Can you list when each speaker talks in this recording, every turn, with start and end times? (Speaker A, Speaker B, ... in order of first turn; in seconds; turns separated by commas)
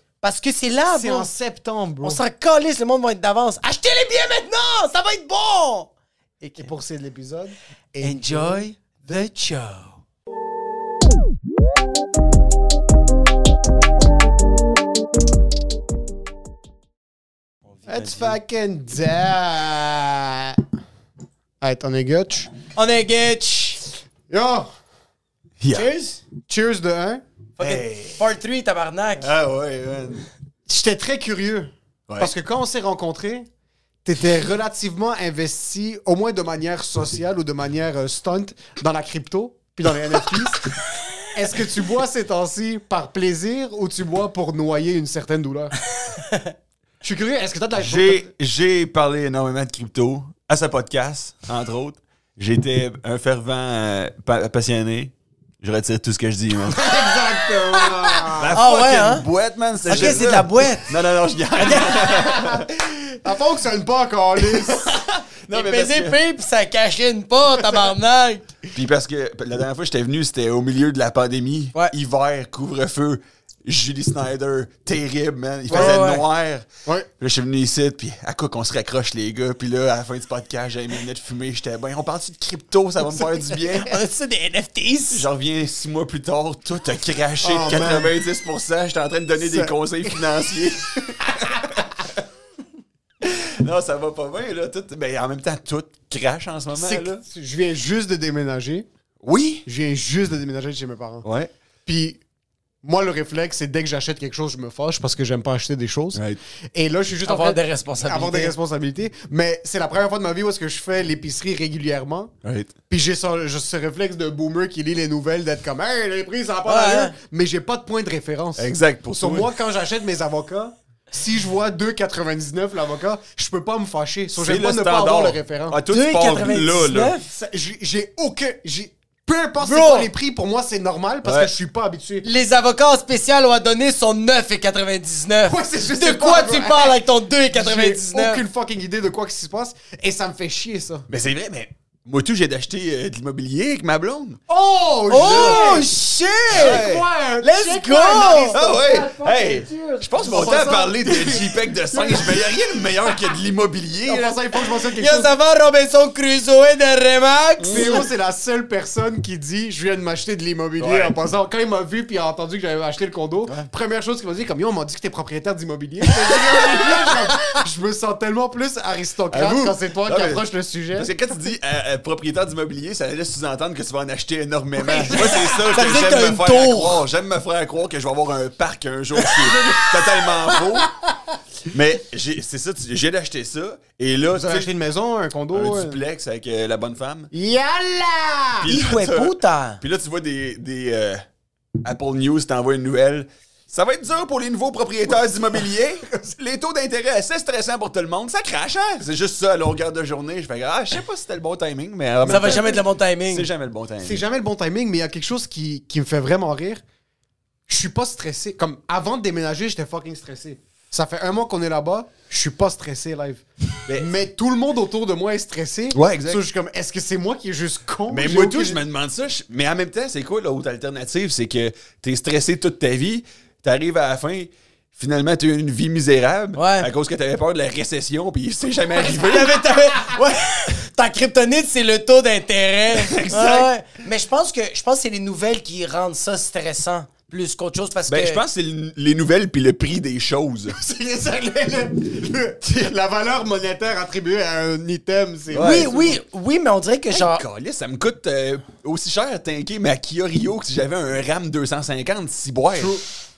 Speaker A: 0.2-1.3, Speaker B: 0.9-2.2, Speaker A: 2.0-6.7, Speaker B: 6.5-8.6, Speaker A: 8.0-10.0, Speaker A: 17.8-18.4, Speaker B: 17.9-20.6, Speaker B: 21.6-22.5, Speaker A: 22.7-23.8, Speaker B: 24.3-24.7, Speaker C: 25.6-25.9, Speaker A: 25.7-26.2, Speaker B: 26.5-27.2, Speaker A: 27.6-29.3, Speaker C: 27.6-28.2, Speaker C: 29.2-30.3, Speaker B: 30.7-33.5, Speaker B: 34.0-40.7, Speaker B: 41.3-45.8, Speaker A: 46.2-46.5, Speaker B: 47.0-48.3, Speaker C: 47.8-56.8, Speaker B: 56.6-58.6, Speaker A: 57.7-59.3, Speaker C: 58.3-62.7, Speaker B: 59.8-60.5, Speaker A: 59.9-61.0, Speaker A: 61.6-62.1, Speaker B: 61.6-64.8, Speaker C: 64.7-66.2, Speaker A: 65.5-68.5, Speaker C: 68.7-76.7, Speaker B: 75.7-76.0, Speaker A: 75.7-76.2, Speaker C: 77.2-84.0, Speaker A: 83.2-85.2, Speaker C: 85.1-91.8, Speaker B: 87.4-88.1, Speaker B: 89.4-89.7, Speaker C: 93.2-97.2, Speaker B: 96.7-98.9, Speaker C: 99.2-99.6, Speaker B: 99.7-101.3, Speaker C: 101.2-101.5, Speaker B: 101.9-102.2, Speaker B: 102.8-106.2, Speaker C: 106.1-106.4, Speaker B: 106.7-112.3, Speaker A: 107.3-108.5, Speaker C: 112.4-112.8, Speaker B: 112.9-125.8, Speaker A: 116.7-117.2, Speaker C: 118.6-119.5, Speaker C: 124.3-127.2, Speaker A: 125.9-127.3, Speaker B: 127.3-132.3, Speaker A: 129.6-130.1, Speaker C: 131.2-131.5, Speaker A: 132.2-138.4, Speaker B: 135.4-137.0, Speaker B: 137.5-141.1, Speaker C: 141.1-144.4, Speaker B: 144.5-145.9, Speaker A: 145.1-146.9, Speaker C: 145.2-145.7, Speaker C: 146.5-147.1, Speaker B: 146.5-153.2, Speaker A: 147.4-148.6, Speaker C: 148.5-154.4, Speaker B: 154.0-155.3, Speaker A: 155.0-158.1, Speaker C: 157.6-158.0, Speaker B: 157.7-171.1, Speaker C: 160.8-161.2, Speaker C: 169.3-170.4, Speaker C: 170.9-181.0, Speaker A: 174.9-177.0, Speaker B: 174.9-175.7, Speaker C: 181.7-184.7, Speaker B: 184.3-186.0, Speaker C: 185.5-187.3, Speaker B: 187.3-188.7, Speaker C: 188.6-191.2, Speaker A: 188.7-189.8, Speaker C: 191.8-204.2, Speaker A: 202.2-203.5, Speaker B: 204.0-206.8, Speaker B: 207.7-218.8, Speaker C: 213.8-214.1, Speaker C: 215.9-216.4, Speaker C: 218.1-229.7, Speaker A: 226.6-226.9, Speaker A: 229.0-238.4, Speaker C: 232.9-233.7, Speaker C: 238.1-240.8, Speaker B: 240.7-245.9, Speaker C: 245.5-246.2, Speaker A: 245.6-247.4, Speaker C: 247.1-252.9, Speaker B: 252.8-253.1